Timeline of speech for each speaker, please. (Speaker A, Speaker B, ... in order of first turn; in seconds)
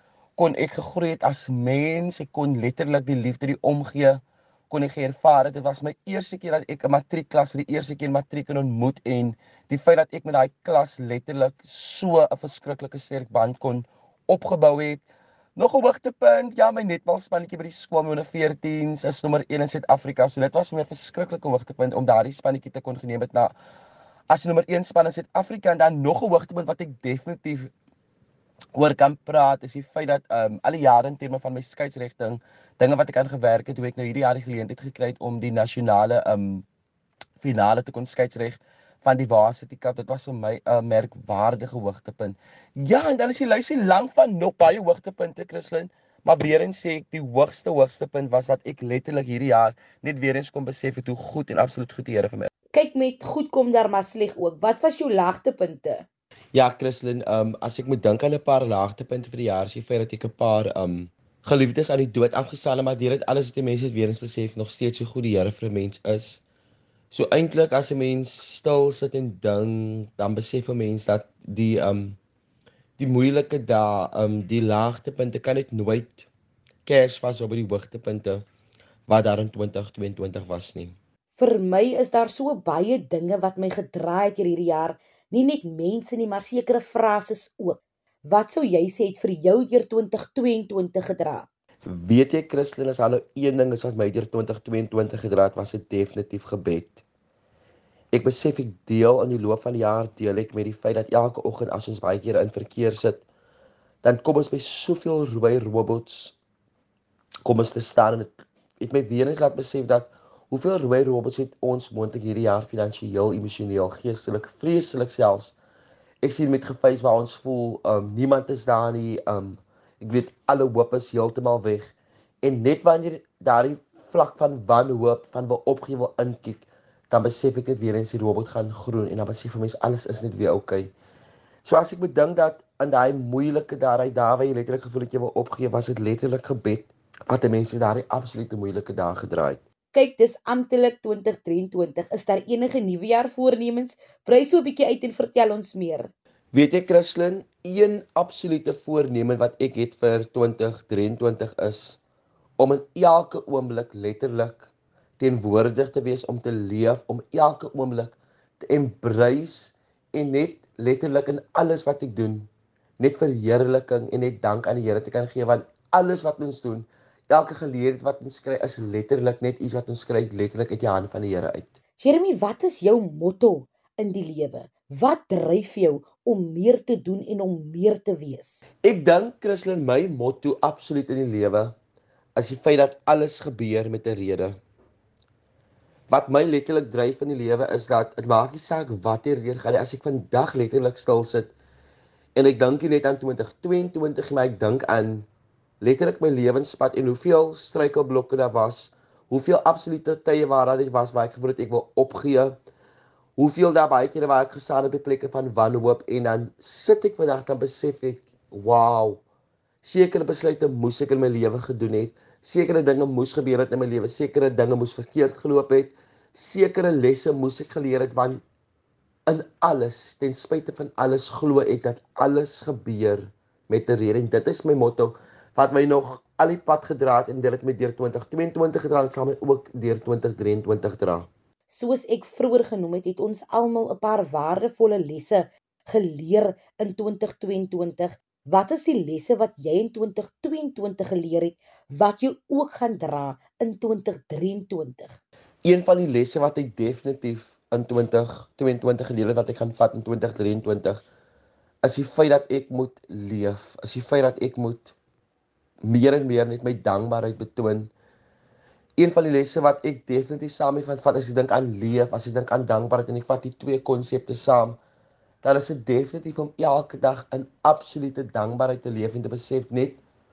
Speaker A: 0.4-15.1, 15.6-23.6, 24.3-27.7, 28.7-36.7, 37.4-52.5, 56.5-66.4, 67.1-72.2, 73.0-76.3, 76.8-78.5, 79.1-81.0, 91.8-97.0, 98.1-103.3, 104.0-106.4, 107.4-115.6, 116.2-130.9, 131.6-139.6, 146.5-152.0, 152.6-171.8, 178.8-181.8, 182.4-184.6, 186.1-191.5, 192.3-195.3, 195.8-202.6, 203.4-209.2, 209.8-218.4, 219.3-231.3, 245.6-251.0, 251.8-254.9, 255.8-257.9, 259.0-264.8, 265.4-270.0
Speaker B: 52.7-56.1, 81.4-91.5, 139.9-146.1, 172.0-178.6, 231.7-245.2